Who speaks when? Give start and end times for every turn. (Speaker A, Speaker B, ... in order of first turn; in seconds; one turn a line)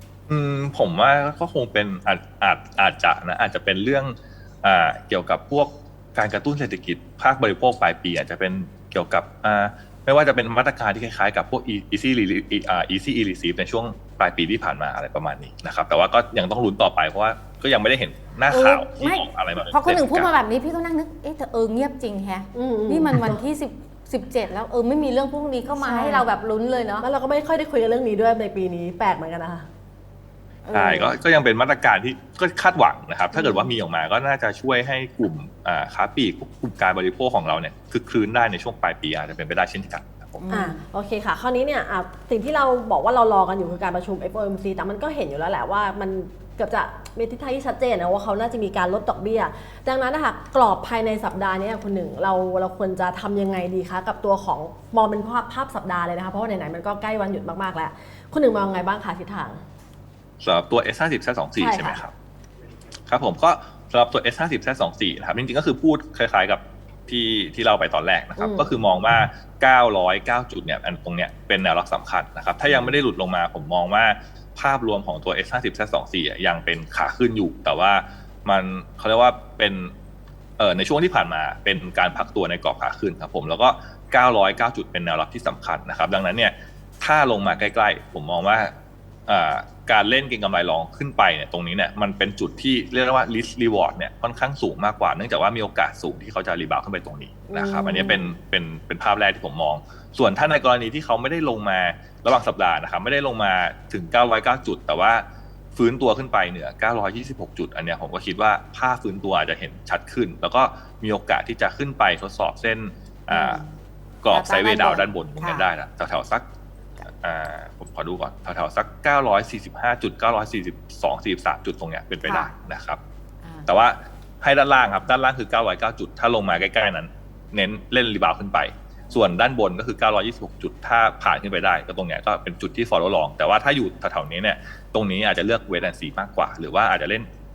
Speaker A: 0.3-20.3
Speaker B: 18.5-27.1
Speaker C: 22.5-23.4
Speaker C: 25.8-26.3
Speaker C: 27.0-29.7
Speaker B: 30.7-31.1
Speaker A: 30.7-40.4
Speaker B: 33.3-33.7
Speaker B: 40.4-40.8
Speaker C: 40.5-59.6
Speaker A: 60.4-62.1
Speaker C: 61.6-62.0
Speaker A: 63.1-79.9
Speaker C: 68.4-68.7
Speaker A: 80.6-88.7
Speaker A: 89.3-113.6
Speaker C: 97.5-98.2
Speaker B: 113.3-113.7
Speaker A: 114.2-116.5
Speaker B: 114.3-115.7
Speaker A: 117.1-123.0
Speaker B: 122.2-122.5
Speaker A: 123.7-137.3